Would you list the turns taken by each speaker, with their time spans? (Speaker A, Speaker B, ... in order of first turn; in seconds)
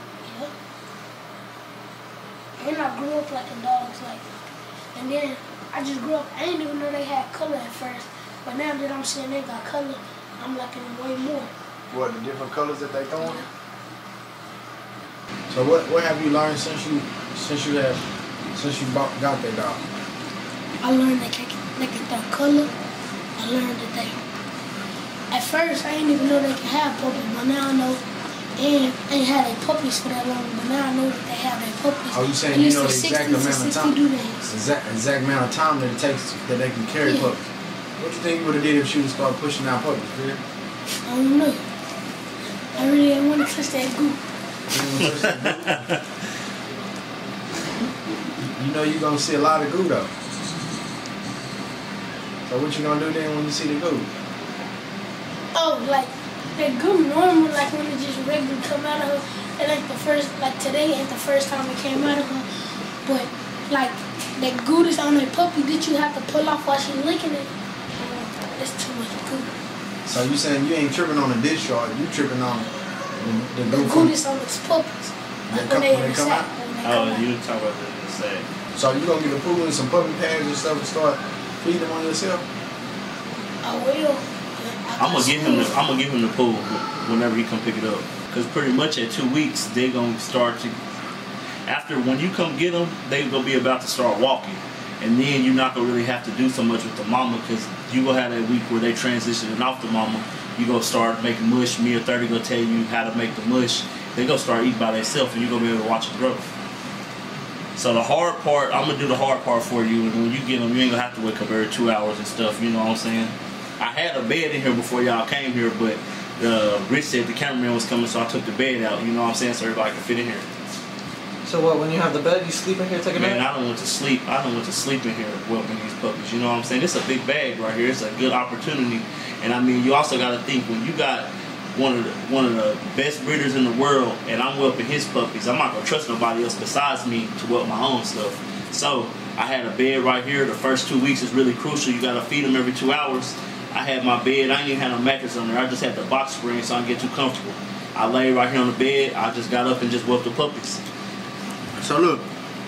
Speaker A: 0.2-0.5, 2.6-4.2, 5.0-11.5, 13.2-13.5, 20.8-22.7, 23.4-24.2, 25.3-28.0, 28.6-34.5, 37.0-37.3, 41.1-41.6, 42.8-44.2, 55.5-62.5, 63.0-69.5, 73.7-77.3, 83.6-85.8
Speaker B: 11.9-13.4, 15.5-18.0, 18.6-19.8, 32.1-34.0, 34.5-37.5, 38.0-40.4, 44.7-45.9, 48.4-50.1, 52.5-54.1, 70.1-74.1, 75.5-76.5, 78.8-82.4, 151.8-152.3
Speaker C: 45.0-46.1, 76.8-78.5, 85.0-90.8, 91.7-106.5, 107.8-120.5, 123.1-150.8
Speaker D: 121.5-123.4